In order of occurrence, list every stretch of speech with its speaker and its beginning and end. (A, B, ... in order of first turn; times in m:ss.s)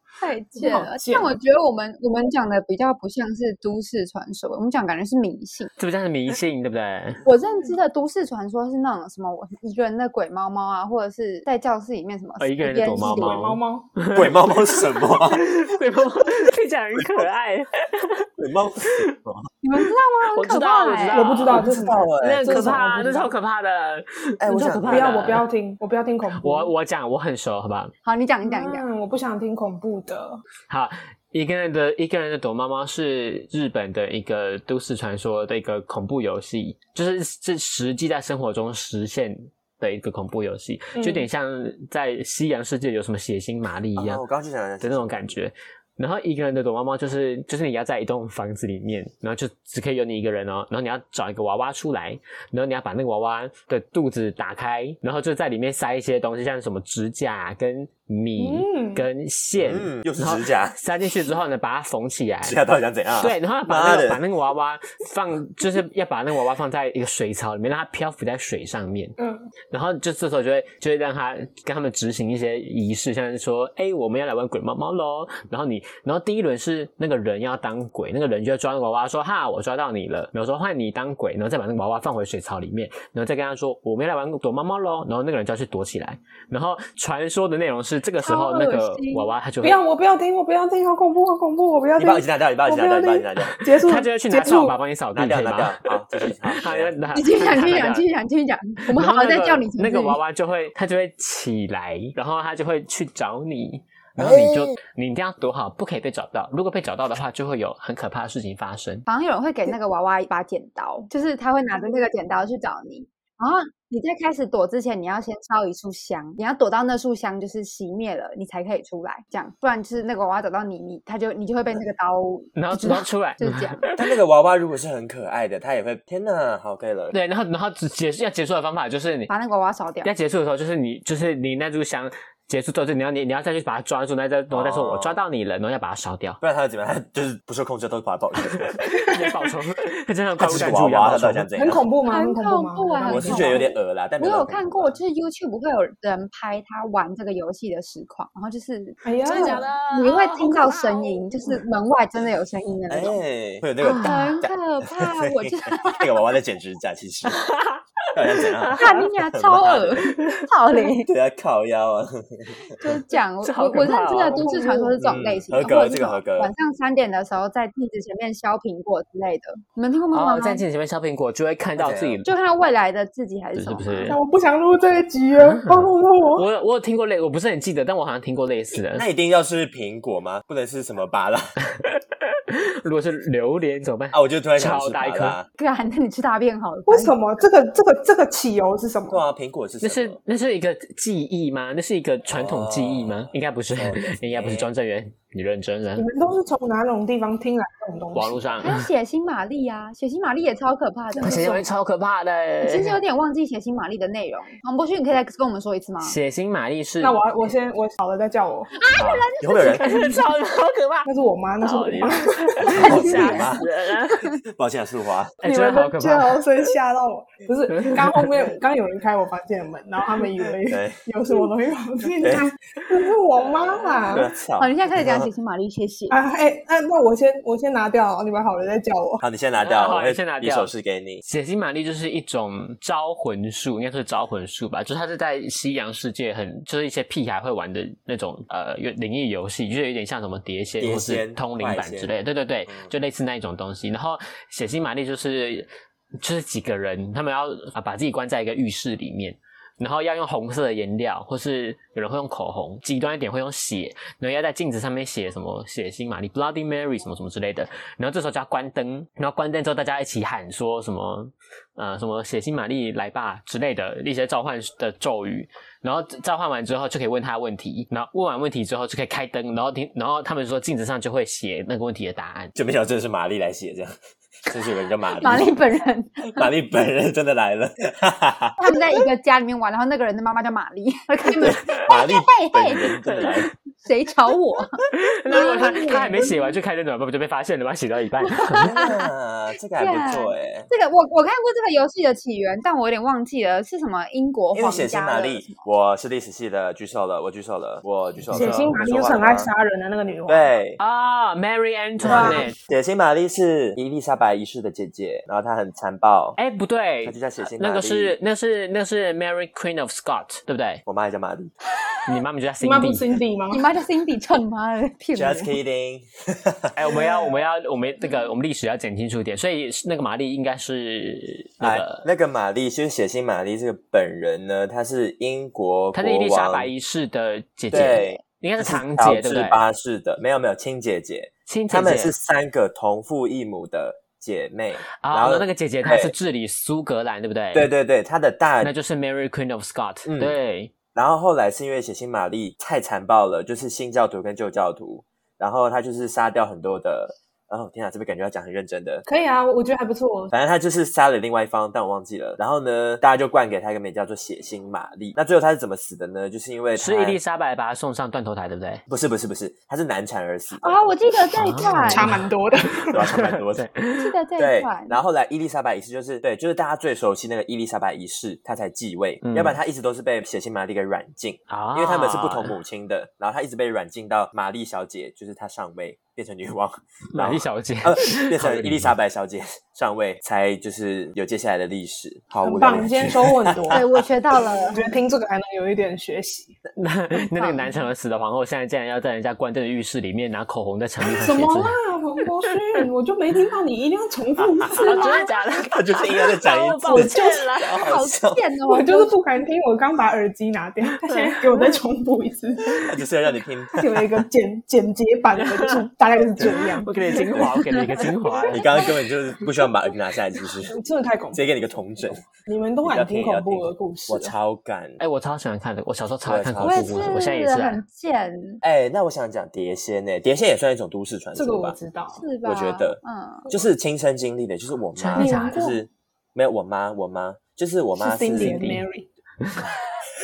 0:00.2-0:05.7 A
0:00.6-0:01.4 B
0:05.8-0:07.2 C
0:07.2-0:13.4 A
0:12.4-0:18.3 C
0:13.0-0:13.9 B
0:14.1-0:15.5 D
0:17.0-0:17.3 D
0:18.4-0:19.5 D
0:19.6-0:21.4 A
0:20.3-0:25.5 C
0:21.1-0:23.3 B
0:21.5-0:23.1 D
0:24.4-0:25.4 D
0:24.8-0:26.7 B
0:26.4-0:27.9 C
0:28.0-0:28.8 A
0:28.4-0:30.4 B
0:30.7-0:44.2 C
0:40.9-0:41.3 B
0:44.0-0:45.4 D
0:44.8-1:02.6 C
0:58.4-0:59.1 B
0:59.6-1:00.8 D
1:02.4-1:04.2 D
1:03.2-1:09.2 C
1:09.2-1:09.5 B
1:09.7-1:29.8 C
1:28.2-1:29.3 A
1:29.6-1:34.8 B
1:32.0-1:33.6 D
1:33.7-1:38.1 C
1:35.1-1:36.9 D
1:37.1-1:40.2 A
1:38.9-1:49.0 C
1:44.2-1:44.8 D
1:49.1-2:03.8 A
2:02.6-2:04.1 C
2:03.9-2:07.2 D
2:07.1-2:09.3 C
2:09.3-2:10.1 A
2:10.0-2:16.4 C
2:14.5-2:15.2 D
2:16.4-2:18.8 D
2:18.8-2:19.5 B
2:19.0-2:21.5 C
2:20.4-2:21.9 D
2:21.6-2:23.6 B
2:22.1-2:33.2 A
2:23.0-2:25.0 D
2:29.0-2:29.7 B
2:29.2-2:31.2 C
2:32.9-2:37.5 D
2:33.8-2:34.4 C
2:34.0-2:36.1 A
2:37.3-2:38.8 C
2:38.1-2:40.2 D
2:38.8-2:41.1 A
2:40.1-2:40.4 C
2:41.1-2:42.9 D
2:42.8-2:50.6 A
2:43.4-2:44.4 C
2:44.2-2:45.0 B
2:45.0-2:46.5 D
2:50.1-2:52.3 C
2:51.8-2:52.2 D
2:52.2-2:54.2 A
2:53.6-2:54.2 C
2:54.1-2:56.5 B
2:55.4-2:55.8 C
2:56.4-2:59.1 C
2:58.9-3:01.6 D
3:01.7-3:05.4 C
3:04.1-3:05.5 D
3:05.6-3:07.2 A
3:06.9-3:09.2 B
3:09.1-3:10.2 D
3:09.8-3:16.1 C
3:12.3-3:14.7 D
3:16.0-3:18.6 B
3:18.1-3:18.8 C
3:18.6-3:21.5 A
3:21.1-3:21.7 B
3:21.2-3:23.0 C
3:22.6-3:26.2 A
3:26.0-3:27.2 C
3:27.0-3:28.7 B
3:28.8-3:30.2 A
3:29.0-3:31.1 C
3:29.4-3:29.9 D
3:31.1-3:33.0 B
3:31.6-3:34.3 C
3:32.7-3:33.6 D
3:32.8-3:34.4 A
3:34.4-3:35.4 D
3:35.4-3:36.6 C
3:35.4-3:44.3 B
3:37.8-3:38.2 C
3:40.7-3:41.0 D
3:42.2-3:42.5 D
3:44.1-3:45.3 D
3:44.6-3:46.2 A
3:46.1-3:49.2 B
3:49.2-3:51.2 D
3:49.6-3:50.7 C
3:51.2-4:32.5 C
4:00.8-4:02.1 D
4:02.7-4:02.9 D
4:32.6-4:35.6 D
4:35.2-4:36.5 A
4:36.2-4:38.6 D
4:38.6-4:43.2 A
4:41.4-4:43.5 D
4:43.8-4:46.5 A
4:44.9-4:48.7 C
4:48.4-4:49.1 A
4:48.5-4:50.7 D
4:49.8-4:55.6 A
4:54.5-4:59.5 D
4:58.3-5:00.5 B
4:58.3-4:58.8 C
5:00.3-5:00.8 D
5:00.8-5:02.6 C
5:02.0-5:06.4 D
5:02.1-5:02.4 B
5:02.1-5:02.4 A
5:06.4-5:10.8 C
5:07.0-5:08.2 D
5:10.9-5:11.5 D
5:12.1-5:13.1 C
5:12.6-5:13.7 B
5:13.5-5:15.5 A
5:15.2-5:16.8 D
5:16.8-5:22.0 C
5:21.6-5:26.7 D
5:25.9-5:29.6 C
5:27.7-5:36.1 D
5:27.9-5:28.2 A
5:31.5-5:32.1 C
5:35.0-5:37.7 C
5:37.5-5:38.7 D
5:38.6-5:40.7 C
5:40.1-5:40.4 D
5:41.0-5:49.0 D
5:49.1-5:50.3 B
5:50.3-5:57.2 D
5:56.8-5:58.8 C
5:58.9-6:00.8 D
6:00.6-6:02.1 A
6:01.3-6:02.2 C
6:01.8-6:03.0 B
6:02.9-6:03.7 D
6:03.0-6:04.1 C
6:04.0-6:05.0 A
6:04.4-6:23.8 D
6:09.2-6:09.6 C
6:11.5-6:12.6 C
6:17.1-6:18.9 C
6:22.4-6:23.8 B
6:23.7-6:24.9 A
6:24.7-6:26.6 B
6:26.8-6:31.8 C
6:27.4-6:27.7 A
6:31.2-6:35.3 B
6:34.8-6:37.9 C
6:35.0-6:35.2 A
6:35.7-6:38.4 D
6:36.9-6:39.1 A
6:38.7-6:43.0 B
6:41.1-6:41.8 C
6:42.7-6:44.1 D
6:43.7-6:47.4 B
6:45.5-6:45.8 C
6:46.4-6:48.8 C
6:47.2-6:48.8 A
6:48.5-6:50.8 D
6:50.7-6:54.3 B
6:51.3-6:52.3 D
6:52.8-6:55.0 D
6:55.0-6:57.8 C
6:56.2-6:57.2 D
6:56.6-6:58.6 A
6:58.6-7:01.8 D
7:01.4-7:02.3 B
7:02.1-7:03.5 A
7:02.4-7:08.7 D
7:05.0-7:05.6 C
7:05.2-7:05.8 B
7:08.0-7:09.1 B
7:08.4-7:08.8 C